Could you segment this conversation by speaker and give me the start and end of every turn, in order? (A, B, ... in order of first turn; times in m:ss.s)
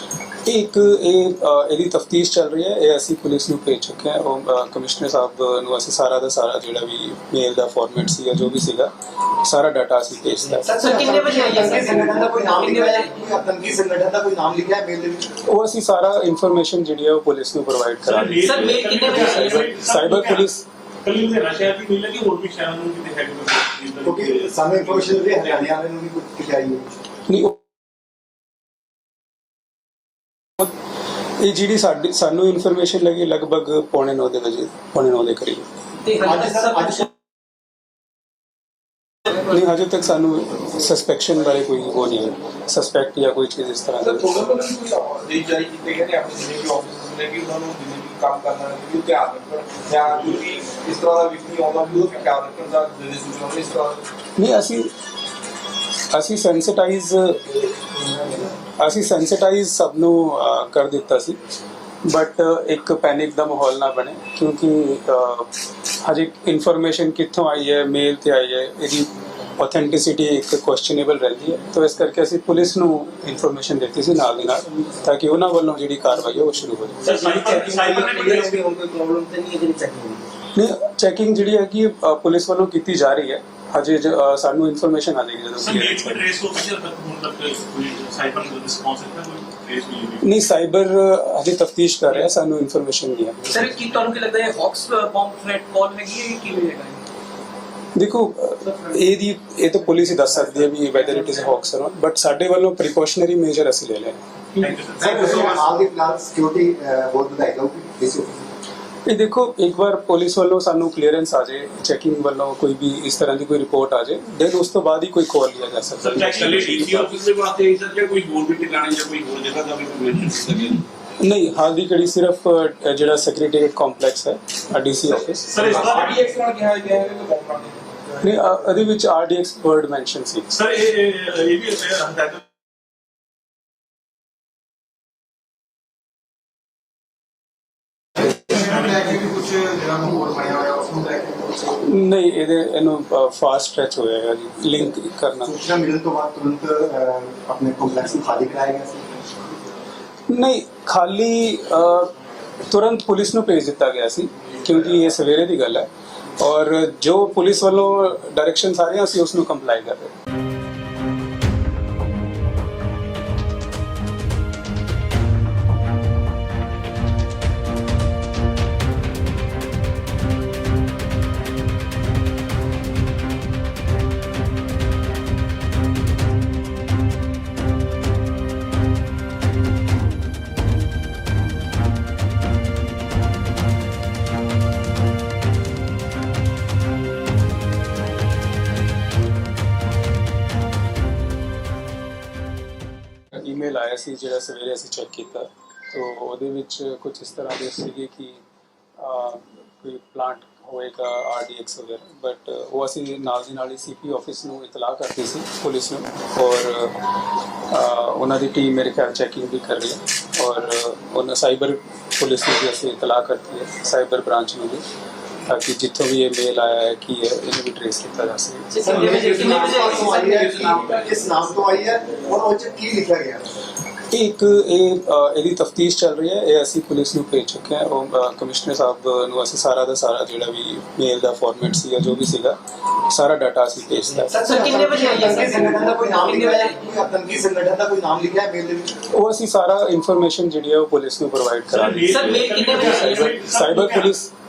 0:00.5-0:10.7 A
0:10.6-0:13.1 B
0:10.7-0:15.4 C
0:15.5-0:20.6 A
0:18.0-0:20.5 D
0:18.4-0:19.7 B
0:21.0-0:25.6 D
0:24.0-0:27.0 C
0:27.3-0:27.6 A
0:31.4-0:35.7 A
0:36.2-0:37.1 C
0:39.5-0:44.3 A
0:44.0-0:54.0 E
0:54.4-0:54.9 A
0:56.1-0:57.4 A
0:58.8-1:01.4 A
1:02.0-1:17.1 A
1:17.0-1:18.6 D
1:17.2-1:20.2 F
1:17.5-1:18.4 B
1:20.6-1:26.2 A
1:25.6-1:30.3 D
1:30.2-1:33.5 A
1:33.5-1:37.0 B
1:38.0-1:44.2 A
1:44.6-1:45.6 D
1:45.0-1:48.4 C
1:49.1-1:57.1 A
1:56.0-2:00.8 D
2:01.2-2:05.6 A
2:05.5-2:06.3 D
2:05.7-2:08.0 E
2:08.2-2:10.5 A
2:10.5-2:12.4 D
2:20.0-2:21.4 C
2:21.7-2:25.5 A
2:25.4-2:29.1 C
2:30.3-2:32.1 A
2:32.7-2:40.1 A
3:13.3-3:18.4 A
3:19.0-3:27.0 A
3:27.7-3:34.8 A
3:35.5-3:38.7 A
3:38.7-3:40.8 B
3:38.8-3:43.4 C
3:40.5-3:40.8 D
3:44.1-3:54.3 A
3:54.3-3:56.7 B
3:54.4-3:59.0 C
3:59.1-4:04.3 A
4:01.7-4:04.1 D
4:02.1-4:03.3 B